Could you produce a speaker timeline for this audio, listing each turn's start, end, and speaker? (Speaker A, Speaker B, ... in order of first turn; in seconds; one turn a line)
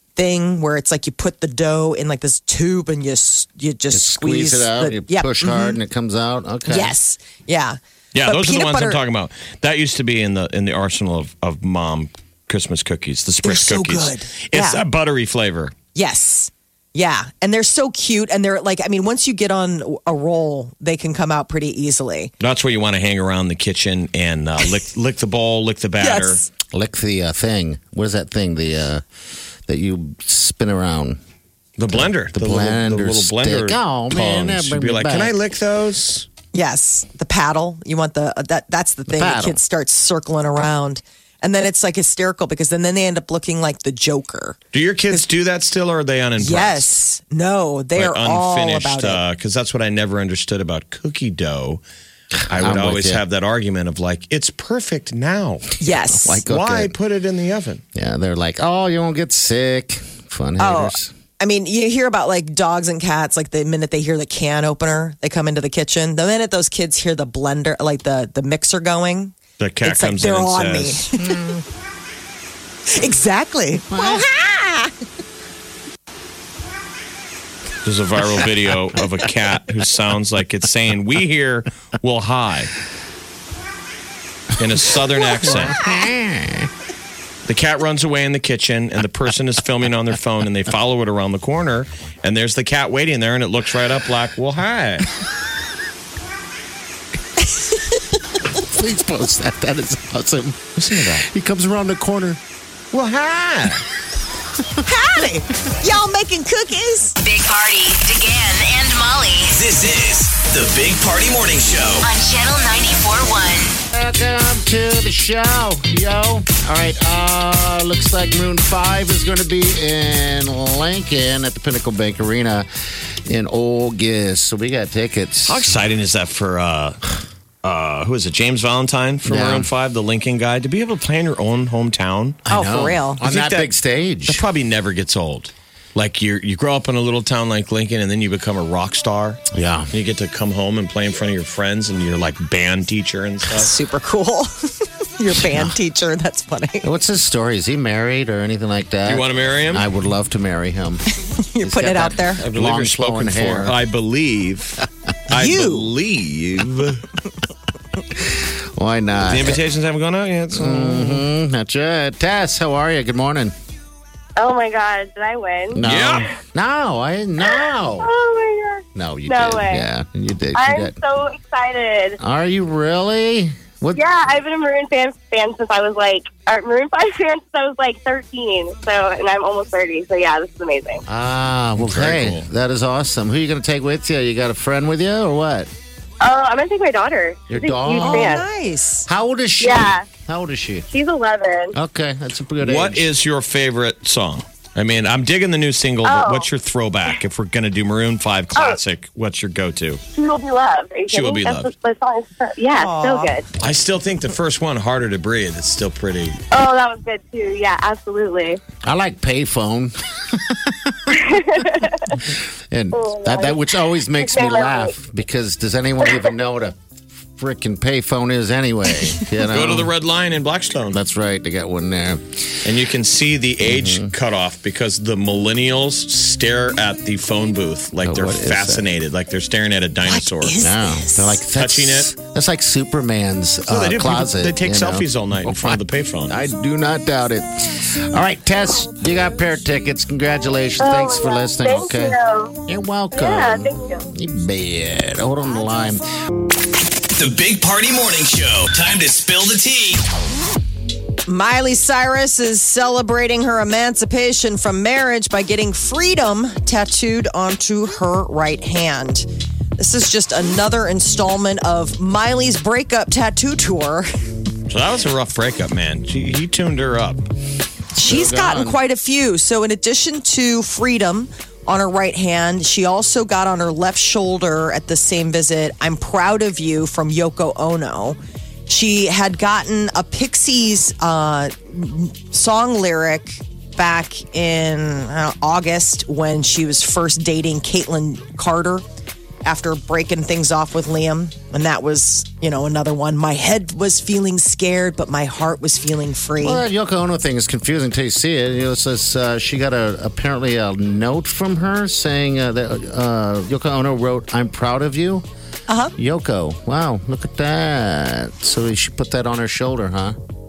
Speaker A: 0.1-5.8
Speaker B: 3.9-6.9
Speaker A: 6.7-9.0
Speaker C: 8.1-15.7
Speaker A: 13.4-14.8
Speaker A: 15.9-22.3
Speaker C: 22.4-26.4
Speaker A: 26.0-26.5
Speaker B: 26.7-29.0
Speaker B: 29.7-31.2
Speaker C: 31.8-36.3
Speaker B: 31.9-35.3
Speaker A: 36.5-44.6
Speaker B: 39.1-39.6
Speaker C: 44.7-46.9
Speaker A: 46.4-49.2
Speaker C: 48.0-51.8
Speaker B: 52.5-53.2
Speaker C: 52.5-55.8
Speaker A: 55.8-56.4
Speaker B: 55.9-56.9
Speaker C: 56.4-57.8
Speaker B: 57.9-61.1
Speaker A: 60.6-71.4
Speaker C: 69.6-71.1
Speaker B: 71.1-71.6
Speaker A: 72.9-74.9
Speaker B: 73.8-74.2
Speaker C: 77.8-82.7
Speaker C: 84.5-85.8
Speaker B: 85.4-86.7
Speaker C: 87.5-95.1
Speaker A: 97.5-98.0
Speaker B: 98.6-102.4
Speaker C: 100.8-101.2
Speaker C: 102.9-103.8
Speaker A: 104.8-107.2
Speaker D: 107.2-109.5
Speaker E: 109.5-112.1
Speaker D: 112.0-113.8
Speaker B: 113.9-122.7
Speaker B: 123.3-125.8
Speaker C: 125.5-127.1
Speaker C: 127.6-132.4
Speaker B: 129.2-129.7
Speaker B: 132.4-134.4
Speaker A: 132.5-133.2
Speaker C: 133.2-133.7
Speaker C: 134.2-143.7
Speaker B: 139.5-139.9
Speaker A: 143.5-146.9
Speaker B: 145.3-145.7
Speaker B: 146.8-151.0
Speaker C: 149.1-149.8
Speaker A: 151.3-152.4
Speaker B: 151.6-153.8
Speaker C: 152.4-157.1
Speaker A: 155.3-155.9
Speaker B: 158.1-159.6
Speaker C: 159.2-161.2
Speaker B: 160.5-163.5
Speaker F: 164.4-166.2
Speaker B: 165.7-168.1
Speaker C: 165.8-166.3
Speaker F: 167.5-169.8
Speaker B: 168.9-171.0
Speaker F: 170.5-172.2
Speaker B: 172.2-174.0
Speaker F: 173.9-181.0
Speaker B: 181.1-185.7
Speaker C: 181.8-182.5
Speaker F: 186.2-188.4
Speaker B: 187.5-188.4
Speaker A: 187.9-189.1
Speaker B: 189.1-190.9
Speaker F: 189.6-190.0
Speaker F: 190.9-191.7
Speaker B: 191.7-193.1
Speaker C: 192.6-200.0
Speaker F: 196.0-196.5
Speaker F: 200.1-203.5
Speaker C: 201.1-201.7
Speaker A: 202.7-203.3
Speaker C: 203.6-206.4
Speaker F: 206.5-208.6
Speaker B: 208.8-216.8
Speaker F: 211.3-211.9
Speaker F: 212.9-213.6
Speaker F: 214.2-214.9
Speaker B: 217.4-219.9
Speaker C: 219.5-221.0
Speaker B: 220.9-222.5
Speaker C: 222.6-230.6
Speaker B: 223.6-224.1
Speaker B: 228.0-228.8
Speaker A: 230.1-231.4
Speaker B: 230.6-246.0
Speaker C: 231.6-232.1
Speaker C: 233.7-236.3
Speaker F: 240.8-242.6
Speaker F: 243.1-244.1
Speaker E: 247.1-250.0
Speaker A: 251.3-264.1
Speaker C: 264.7-267.2
Speaker A: 267.9-288.8
Speaker B: 268.0-268.8
Speaker A: 289.4-296.6
Speaker B: 296.4-305.2
Speaker A: 305.7-305.9
Speaker B: 305.9-310.1